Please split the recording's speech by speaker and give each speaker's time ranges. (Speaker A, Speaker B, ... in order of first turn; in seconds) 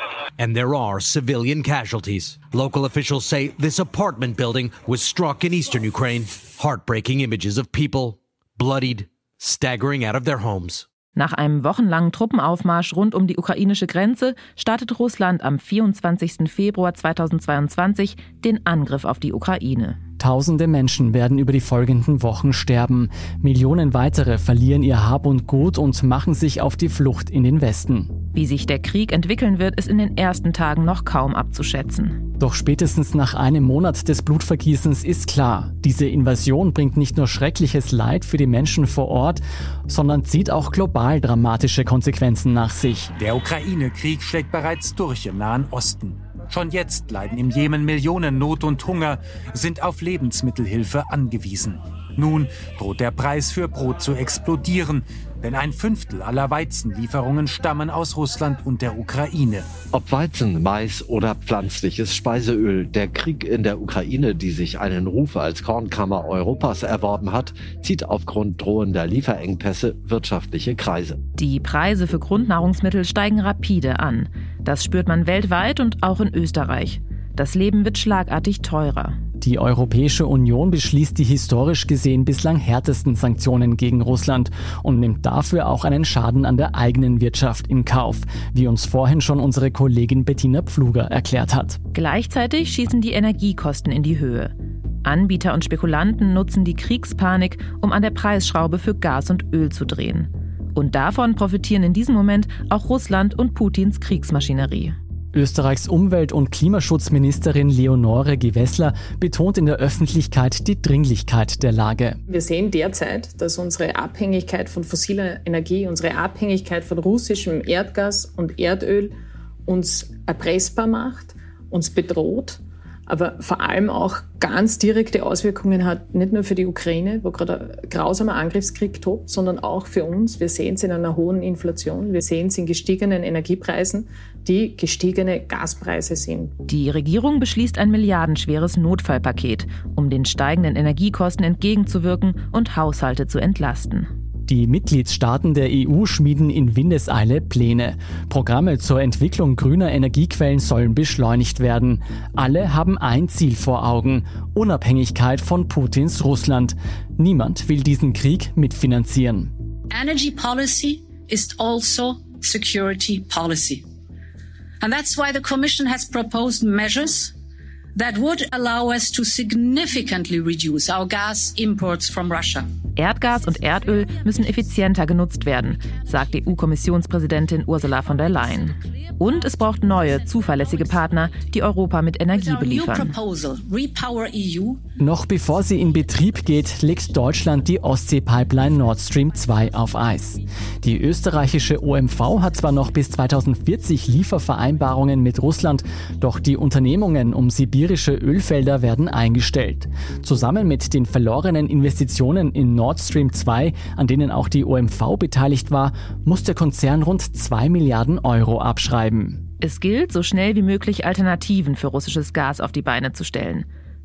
Speaker A: 0.4-10.8
Speaker B: 11.2-20.0, 28.3-32.2, 71.4-79.2, 91.9-94.5, 95.0-104.9, 136.7-144.1, 172.9-183.2, 209.6-213.7
Speaker C: 20.2-28.1, 32.4-43.1, 79.4-91.8, 105.3-112.2, 144.5-159.5, 185.0-209.4
Speaker D: 43.2-59.7
Speaker E: 59.9-71.2
Speaker F: 112.3-119.1, 119.7-136.5
Speaker G: 159.9-163.8, 164.8-167.3, 167.9-172.7, 182.3-184.8